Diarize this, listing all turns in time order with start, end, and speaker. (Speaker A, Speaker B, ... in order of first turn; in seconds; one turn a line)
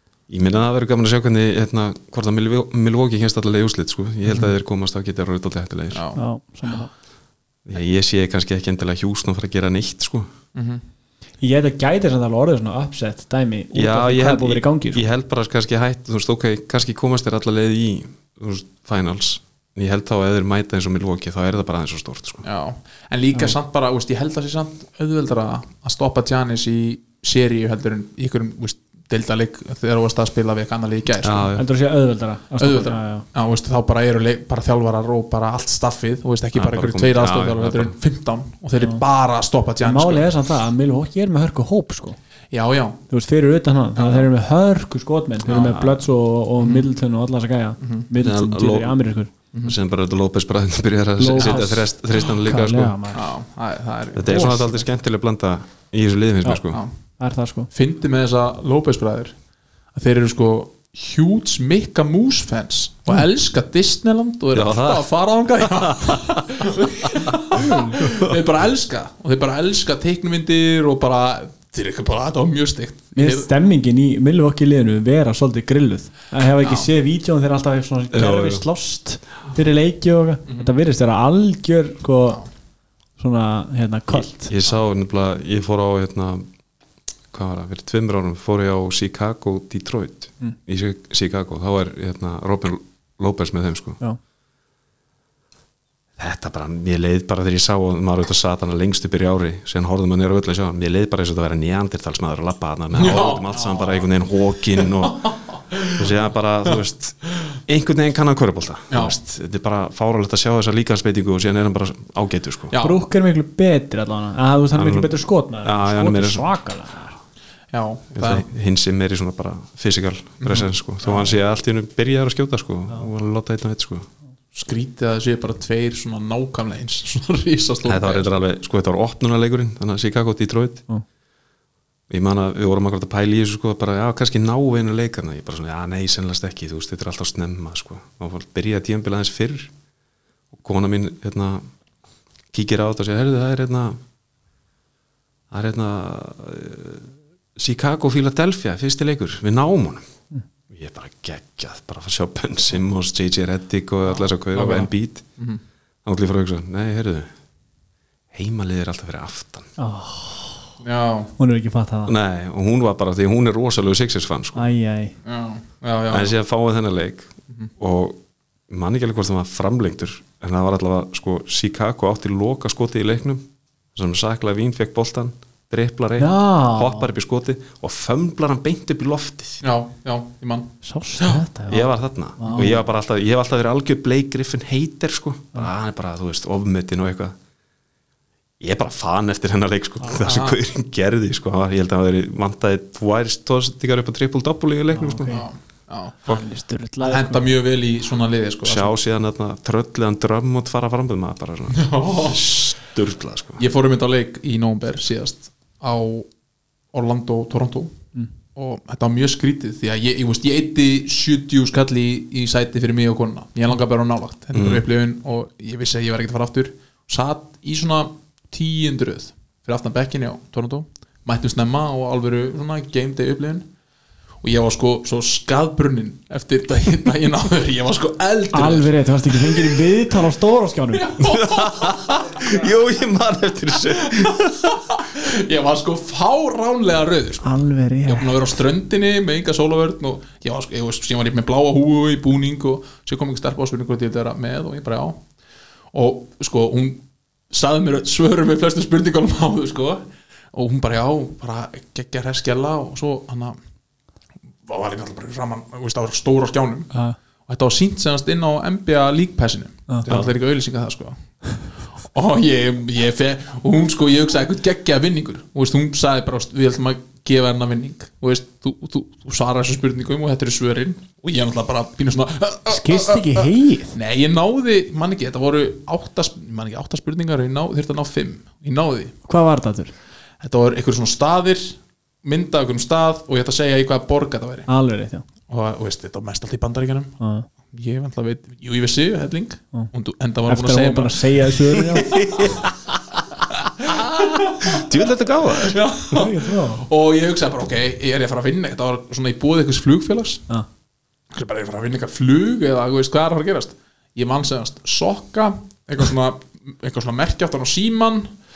Speaker A: 0.3-6.0
Speaker B: 5.9-6.7
Speaker C: 6.2-6.9
Speaker A: 7.7-10.3
Speaker B: 10.5-10.8
Speaker C: 11.4-15.1
Speaker A: 13.7-22.4
Speaker B: 22.4-31.5
Speaker A: 31.2-31.6
Speaker C: 31.6-33.2
Speaker B: 32.6-40.3
Speaker A: 36.5-37.9
Speaker C: 39.8-42.2
Speaker B: 42.5-43.0
Speaker C: 43.1-49.3
Speaker B: 44.0-44.3
Speaker B: 45.5-45.8
Speaker A: 45.5-46.0
Speaker B: 46.6-46.9
Speaker B: 47.8-48.1
Speaker A: 48.2-49.0
Speaker A: 49.6-53.0
Speaker C: 51.2-53.3
Speaker B: 53.1-54.7
Speaker A: 54.1-56.8
Speaker C: 54.3-54.8
Speaker C: 57.2-57.7
Speaker B: 57.7-59.3
Speaker B: 59.9-73.5
Speaker A: 64.5-65.1
Speaker A: 65.6-66.4
Speaker C: 67.5-68.0
Speaker A: 68.0-68.3
Speaker C: 73.1-82.4
Speaker B: 76.6-76.9
Speaker A: 78.1-78.6
Speaker C: 83.2-84.5
Speaker A: 84.1-86.4
Speaker A: 87.3-94.0
Speaker A: 96.2-112.7
Speaker B: 102.9-104.0
Speaker B: 104.9-106.0
Speaker B: 108.9-109.2
Speaker B: 112.7-113.0
Speaker C: 112.8-117.2
Speaker A: 114.7-115.1
Speaker A: 115.6-116.4
Speaker B: 117.7-118.5
Speaker A: 118.1-124.1
Speaker B: 120.4-121.3
Speaker B: 124.5-128.3
Speaker A: 127.8-130.8
Speaker A: 132.1-139.7
Speaker A: 140.5-141.6
Speaker A: 142.5-144.0
Speaker A: 145.5-150.1
Speaker A: 150.7-155.2
Speaker B: 154.2-155.6
Speaker A: 156.0-157.3
Speaker A: 158.3-159.7
Speaker C: 159.8-160.7
Speaker B: 160.8-161.3
Speaker C: 161.4-162.1
Speaker A: 162.1-164.7
Speaker C: 164.6-165.1
Speaker B: 165.2-166.3
Speaker A: 166.1-179.6
Speaker C: 176.2-177.1
Speaker B: 179.6-181.4
Speaker C: 180.8-182.8
Speaker A: 181.7-187.3
Speaker A: 188.6-195.4
Speaker B: 190.2-190.6
Speaker C: 194.9-195.4
Speaker B: 195.3-196.4
Speaker C: 196.3-197.5
Speaker B: 197.0-198.9
Speaker A: 198.6-203.6
Speaker B: 201.7-202.5
Speaker B: 203.6-206.3
Speaker B: 206.9-207.9
Speaker B: 208.5-223.7
Speaker A: 214.5-214.8
Speaker B: 224.4-229.8
Speaker C: 228.5-231.2
Speaker B: 230.9-232.6
Speaker A: 231.2-234.8
Speaker B: 233.8-245.2
Speaker C: 237.4-238.4
Speaker B: 245.9-253.6
Speaker B: 254.7-256.9
Speaker B: 257.5-261.2
Speaker B: 262.0-279.1
Speaker C: 272.7-273.9
Speaker C: 279.2-279.9
Speaker B: 280.4-284.7
Speaker C: 284.7-285.2
Speaker B: 285.5-287.2
Speaker C: 287.2-287.5
Speaker B: 287.7-292.6
Speaker C: 290.5-292.2
Speaker A: 292.0-292.7
Speaker B: 293.5-294.9
Speaker A: 294.6-295.8
Speaker B: 295.6-300.4
Speaker C: 296.1-296.8
Speaker B: 301.3-308.3